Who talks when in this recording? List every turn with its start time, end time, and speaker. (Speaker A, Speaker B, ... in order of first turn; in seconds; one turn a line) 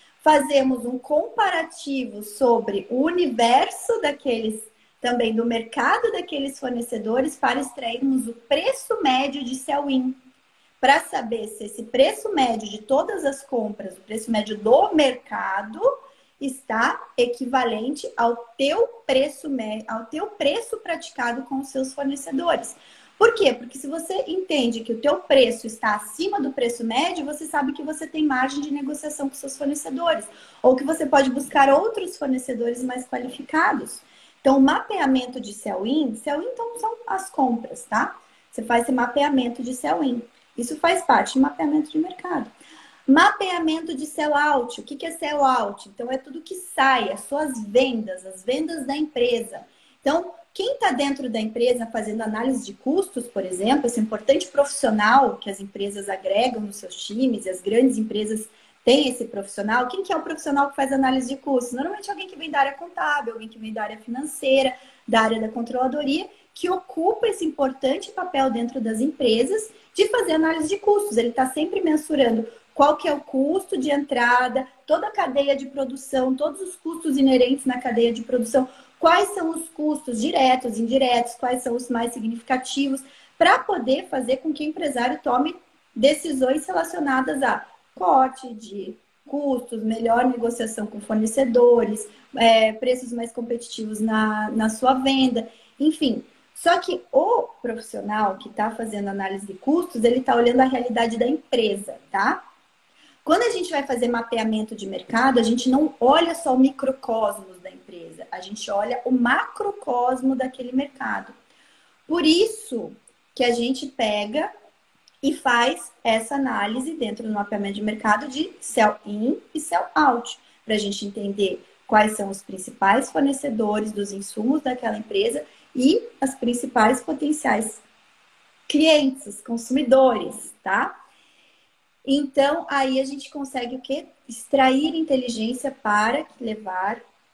Speaker A: 0.2-10.2
Speaker A: 10.8-15.9
Speaker A: 16.4-42.5
Speaker A: 43.1-102.4
Speaker A: 103.2-111.3
Speaker A: 112.1-114.5
Speaker A: 115.2-127.8
Speaker A: 128.7-130.9
Speaker A: 132.1-137.0